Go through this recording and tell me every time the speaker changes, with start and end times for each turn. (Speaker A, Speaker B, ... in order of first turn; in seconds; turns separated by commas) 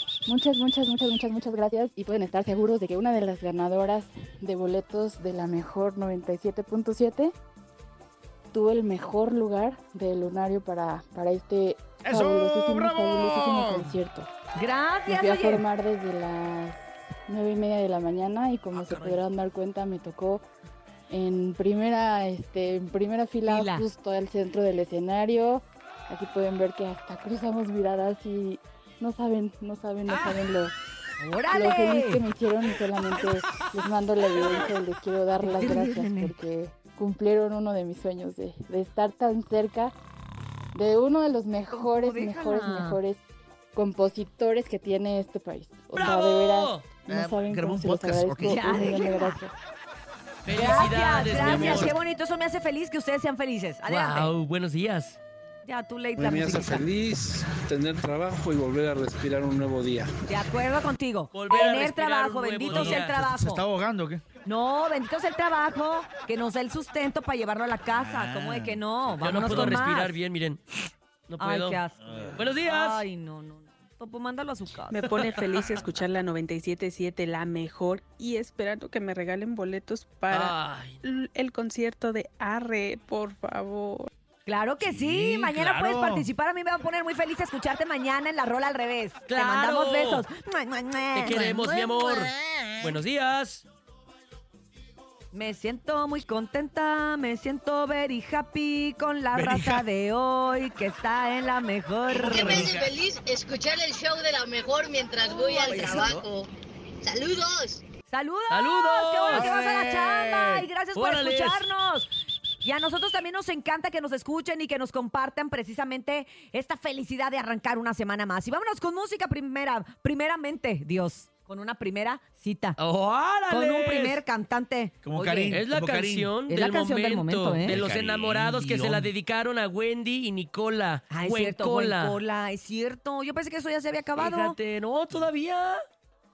Speaker A: 0.2-7.3, Speaker A: 8.5-14.3, Speaker B: 12.0-13.9, Speaker C: 14.6-15.6, Speaker A: 15.1-20.4, Speaker D: 18.7-19.2, Speaker A: 21.1-30.7, Speaker C: 23.4-23.8, Speaker D: 30.1-30.4, Speaker C: 31.2-32.2, Speaker A: 31.5-39.9, Speaker C: 35.4-36.3, Speaker A: 40.7-43.2, Speaker C: 41.7-43.0, Speaker A: 43.7-49.5, Speaker D: 45.9-46.9, Speaker B: 47.1-48.9, Speaker C: 48.4-49.4, Speaker D: 50.4-51.9, Speaker C: 50.5-54.3, Speaker E: 51.3-51.9, Speaker D: 53.9-55.2, Speaker C: 55.6-56.8, Speaker E: 56.2-60.1, Speaker C: 60.3-63.6, Speaker D: 61.3-63.2, Speaker B: 62.7-64.2, Speaker C: 64.4-70.2, Speaker B: 67.9-69.8, Speaker D: 69.2-70.6, Speaker D: 71.3-71.8, Speaker C: 71.4-75.0, Speaker B: 72.0-72.5, Speaker D: 72.3-73.0, Speaker F: 74.9-84.1, Speaker D: 75.0-75.9, Speaker D: 80.3-81.0, Speaker C: 84.5-91.8, Speaker B: 84.8-86.3, Speaker D: 89.3-90.3, Speaker D: 91.1-93.6, Speaker C: 95.3-102.7, Speaker D: 99.3-99.8, Speaker G: 102.1-106.5, Speaker B: 102.3-102.9, Speaker C: 105.3-106.1, Speaker B: 105.7-106.2, Speaker G: 107.0-107.8, Speaker C: 108.1-122.8, Speaker D: 108.5-111.7, Speaker B: 109.3-110.5, Speaker D: 122.8-124.2, Speaker C: 123.5-125.6, Speaker B: 125.0-126.3, Speaker D: 125.5-132.2, Speaker C: 126.5-127.8, Speaker B: 127.6-129.1, Speaker C: 131.1-134.6, Speaker D: 134.2-135.8